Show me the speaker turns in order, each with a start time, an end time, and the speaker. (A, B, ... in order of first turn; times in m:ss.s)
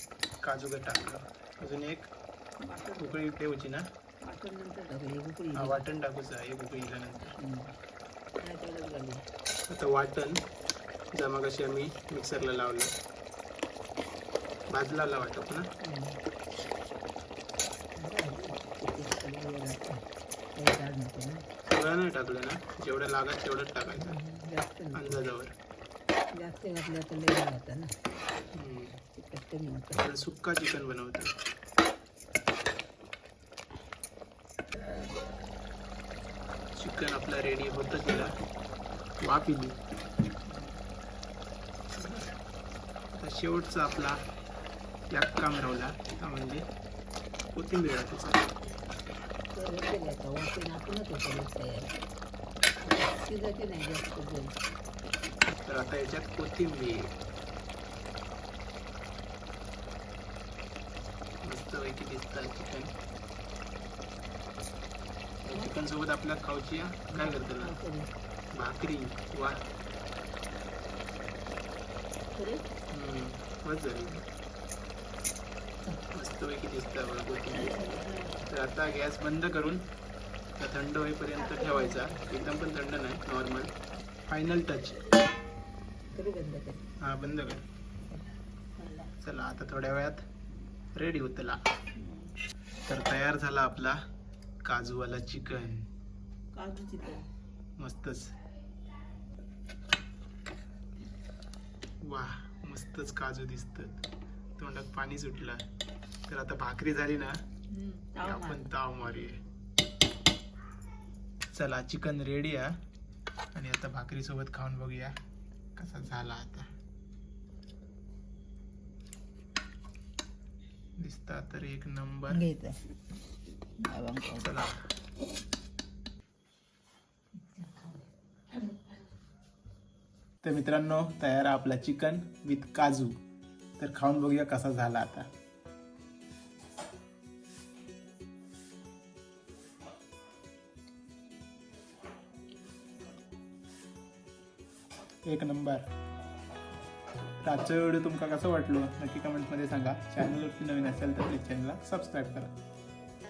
0:00.4-0:02.1 A
0:02.6-0:03.2 B
0:03.0-0:03.8 A
0:04.2-0:05.8 B
0:05.6-0:07.4 A
0:07.4-0:07.7 B
0:08.4-0:09.2 B
0:09.7-0:10.4 A
0:11.1-0:12.9 A
0:14.7-0:15.7 A
0:15.8-0:16.2 B
0:18.0-0:21.5 B
0:21.7-0:24.2 A
0:23.9-0:25.2 B
0:25.0-0:25.6 A
0:26.3-0:28.0 B
0:28.5-0:29.0 A
0:29.2-0:30.1 B
0:30.0-0:31.3 A
0:36.8-0:38.3 A
0:39.2-0:39.8 A
0:40.5-0:40.8 B
0:42.0-0:42.3 B
0:43.1-0:44.2 A
0:45.1-0:46.6 A
0:47.5-0:48.6 A
0:49.5-0:52.0 B
0:52.8-0:54.6 B
0:55.5-0:57.1 A
1:01.4-1:02.9 A
1:05.4-1:07.7 A
1:07.1-1:08.1 B
1:08.5-1:09.6 A
1:12.4-1:12.7 B
1:12.9-1:14.2 A
1:15.8-1:16.1 B
1:16.1-1:17.8 A
1:17.5-1:18.5 B
1:18.4-1:19.9 A
1:20.6-1:23.7 A
1:21.4-1:22.4 B
1:24.3-1:25.0 A
1:26.1-1:26.9 B
1:27.0-1:27.6 A
1:28.1-1:29.1 B
1:29.2-1:30.3 A
1:31.0-1:31.6 A
1:32.0-1:32.4 B
1:32.9-1:34.0 A
1:34.6-1:35.9 A
1:36.5-1:37.3 B
1:37.8-1:38.4 A
1:42.0-1:44.0 A
1:44.6-1:45.6 A
1:46.3-1:47.4 A
1:47.7-1:48.7 B
1:48.2-1:49.4 A
1:51.5-1:52.8 A
1:53.5-1:55.2 A
1:55.8-1:56.7 A
2:01.0-2:02.4 A
2:02.3-2:02.9 B
2:03.8-2:04.5 B
2:04.4-2:04.9 A
2:07.4-2:09.0 B
2:10.4-2:13.2 A
2:13.8-2:15.3 A
2:25.3-2:25.9 A
2:27.4-2:32.5 A